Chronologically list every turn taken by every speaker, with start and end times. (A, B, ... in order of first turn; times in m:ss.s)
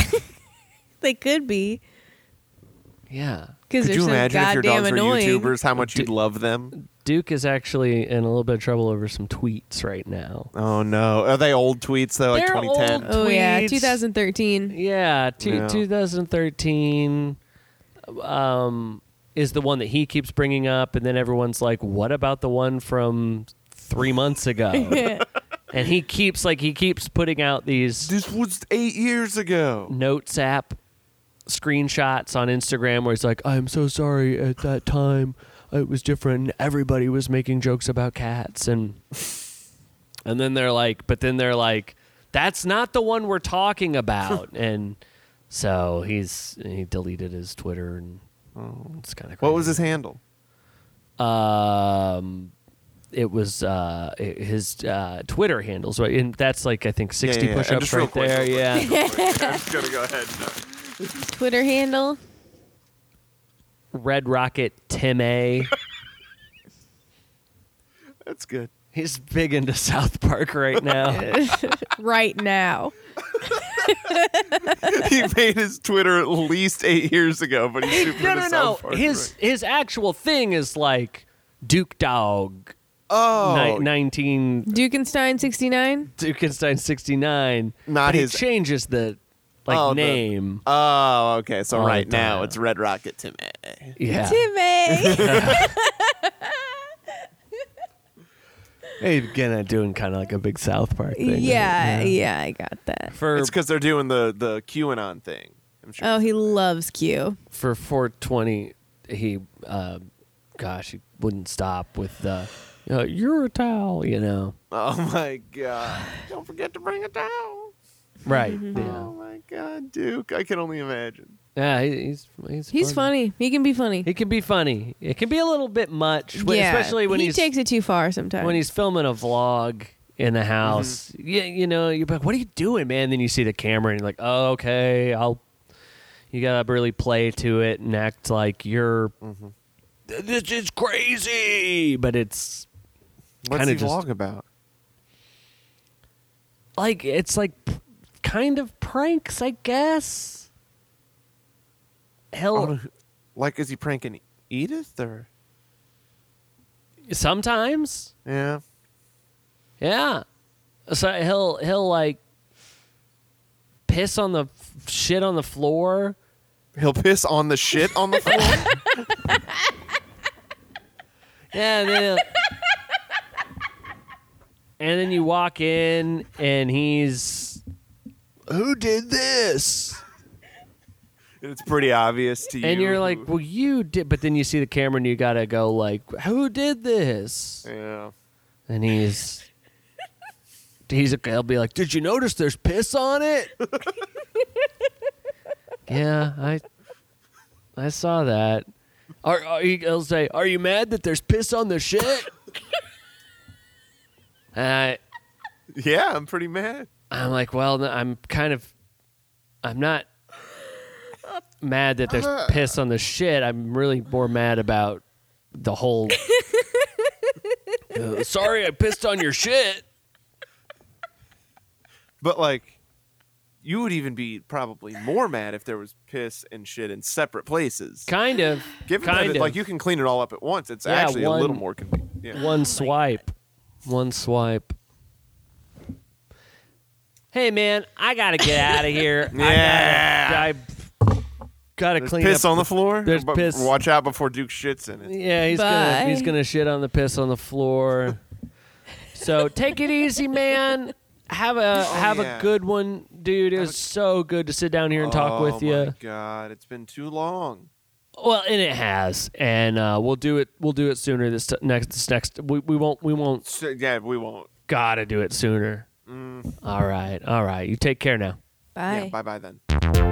0:01.0-0:01.8 A
0:03.1-0:03.6 B
0:03.7-0:05.5 A
0:03.8-0:06.7 C
0:05.8-0:06.1 B
0:06.7-0:10.5 B
0:10.5-0:13.1 C
0:12.3-0:14.0 B
0:13.0-0:14.7 A
0:14.7-0:17.4 B
0:15.4-0:15.8 C
0:18.1-0:28.1 B
0:24.8-0:25.2 A
0:28.0-0:29.9 C
0:29.9-0:30.8 B
0:31.4-0:39.0 B
0:40.2-0:45.0 B
0:45.5-0:48.2 B
0:48.6-0:50.2 C
0:49.0-0:49.8 B
0:51.2-0:52.5 B
0:53.1-0:59.0 B
0:57.2-1:01.1 C
0:58.7-0:59.6 A
1:01.2-1:02.2 A
1:03.9-1:05.7 B
1:08.2-1:08.7 C
1:08.9-1:11.3 B
1:11.0-1:14.9 A
1:14.7-1:19.3 C
1:17.9-1:22.7 B
1:23.1-1:23.9 C
1:23.4-1:24.7 B
1:24.7-1:26.1 A
1:26.2-1:30.6 B
1:27.9-1:28.4 C
1:29.7-1:34.0 C
1:31.7-1:32.6 B
1:34.0-1:34.5 B
1:34.2-1:36.8 A
1:34.9-1:35.7 C
1:35.2-1:35.7 B
1:39.0-1:42.2 B
1:41.1-1:43.1 A
1:43.1-1:43.5 B
1:43.3-1:46.6 C
1:46.0-1:47.4 A
1:47.5-1:50.0 B
1:50.6-1:54.5 B
1:54.7-1:57.7 C
1:58.2-1:59.1 B
1:58.3-1:58.8 A
1:58.7-2:01.4 C
2:01.6-2:03.1 B
2:02.7-2:04.1 A
2:04.0-2:07.5 B
2:06.3-2:08.6 A
2:08.4-2:15.4 B
2:10.6-2:11.0 C
2:16.3-2:19.1 B
2:19.2-2:19.5 C
2:20.1-2:22.7 B
2:23.4-2:24.4 C
2:23.5-2:24.0 B
2:26.8-2:30.5 B
2:32.3-2:32.7 B
2:32.5-2:35.3 C
2:37.1-2:38.1 B
2:38.2-2:38.6 C
2:39.8-2:40.2 B
2:40.9-2:42.2 B
2:43.9-2:46.2 B
2:46.7-2:48.7 C
2:48.3-2:48.7 B
2:51.5-2:52.3 B
2:54.8-2:57.6 B
2:58.5-3:00.0 B
3:01.4-3:03.3 C
3:02.6-3:07.7 B
3:07.6-3:08.1 C
3:08.7-3:09.5 B
3:10.9-3:13.6 B
3:15.9-3:16.6 B
3:17.8-3:18.6 B
3:19.2-3:22.3 B
3:24.5-3:25.0 B
3:25.7-3:26.9 C
3:27.1-3:28.7 B
3:29.6-3:30.1 B
3:31.6-3:36.3 B
3:32.1-3:32.8 C
3:36.3-3:36.8 A
3:37.9-3:39.8 B
3:42.2-3:42.8 C
3:43.6-3:48.1 C
3:48.1-3:49.6 B
3:48.8-3:52.4 C
3:50.8-3:51.6 B
3:52.3-3:53.3 B
3:53.8-3:54.7 B
3:57.3-4:00.9 B
3:59.3-4:00.5 C
4:01.8-4:03.7 B
4:02.0-4:05.1 C
4:05.0-4:08.2 B
4:05.5-4:06.3 A
4:09.1-4:15.9 B
4:11.8-4:12.6 C
4:14.9-4:17.7 C
4:18.2-4:23.4 B
4:23.4-4:24.5 C
4:24.7-4:25.9 B
4:26.0-4:26.5 C
4:26.6-4:28.4 B
4:28.8-4:29.1 A
4:28.9-4:29.6 C